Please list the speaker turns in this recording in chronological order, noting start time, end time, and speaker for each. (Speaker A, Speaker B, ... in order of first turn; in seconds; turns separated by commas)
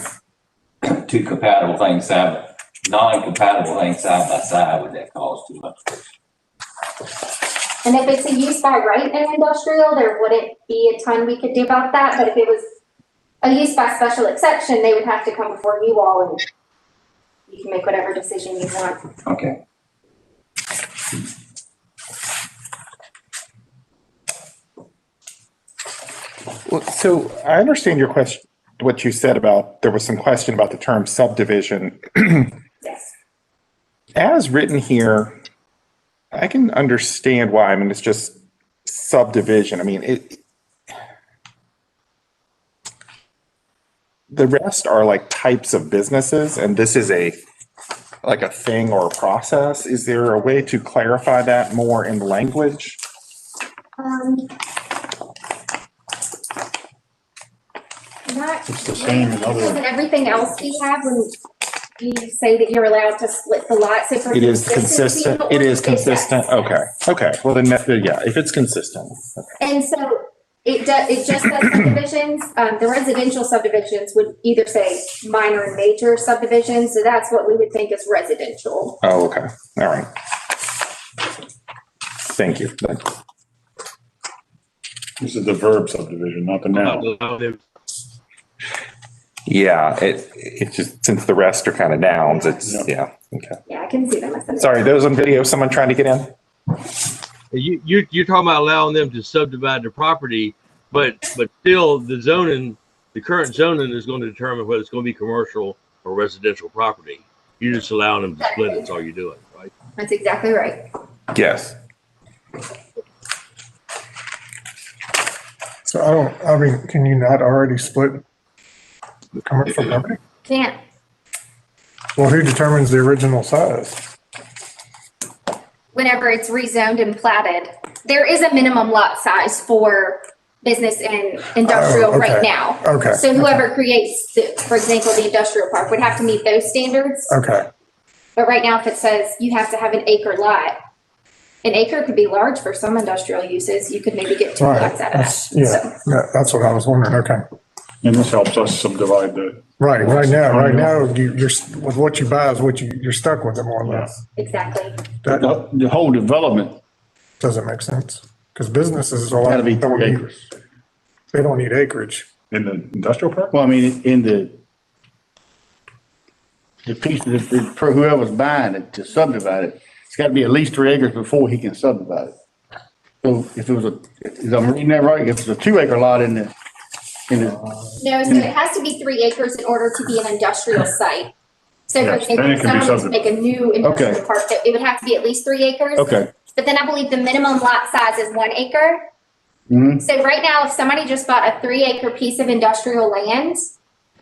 Speaker A: 0.8-6.0, Speaker B: 7.8-12.6, Speaker B: 13.4-16.4, Speaker B: 17.5-19.0, Speaker A: 19.2-19.6, Speaker C: 26.7-32.5, Speaker B: 32.8-33.1, Speaker C: 34.1-35.3, Speaker C: 36.3-40.4, Speaker C: 44.3-47.4, Speaker C: 48.2-53.0, Speaker B: 54.0-54.5, Speaker B: 58.3-61.3, Speaker B: 62.0-66.8, Speaker C: 64.3-69.4, Speaker B: 69.6-79.0, Speaker C: 79.0-80.1, Speaker C: 82.3-83.0, Speaker D: 85.2-87.1, Speaker E: 86.8-87.6, Speaker C: 89.5-93.6, Speaker B: 93.7-94.8, Speaker C: 94.6-96.3, Speaker E: 97.5-109.7, Speaker B: 108.4-108.8, Speaker B: 110.0-110.8, Speaker C: 111.3-111.8, Speaker F: 115.8-118.2, Speaker F: 119.4-120.2, Speaker B: 120.4-120.8, Speaker F: 122.2-124.0, Speaker B: 125.9-137.4, Speaker F: 131.6-133.6, Speaker F: 137.3-137.7, Speaker B: 138.3-140.8, Speaker B: 141.6-145.9, Speaker F: 144.6-147.4, Speaker D: 148.0-150.9, Speaker F: 149.8-154.2, Speaker D: 153.8-154.1, Speaker B: 154.3-155.0, Speaker F: 155.2-155.6, Speaker G: 155.3-156.8, Speaker F: 157.4-160.3, Speaker G: 159.4-160.3, Speaker F: 161.3-162.3, Speaker D: 162.5-163.6, Speaker G: 163.5-164.6, Speaker G: 166.8-172.3, Speaker G: 173.2-176.5, Speaker G: 177.3-178.5, Speaker B: 178.0-181.3, Speaker B: 181.9-189.0, Speaker D: 182.0-183.2, Speaker G: 183.8-184.2, Speaker G: 186.0-186.3, Speaker G: 189.7-190.0, Speaker B: 190.0-193.7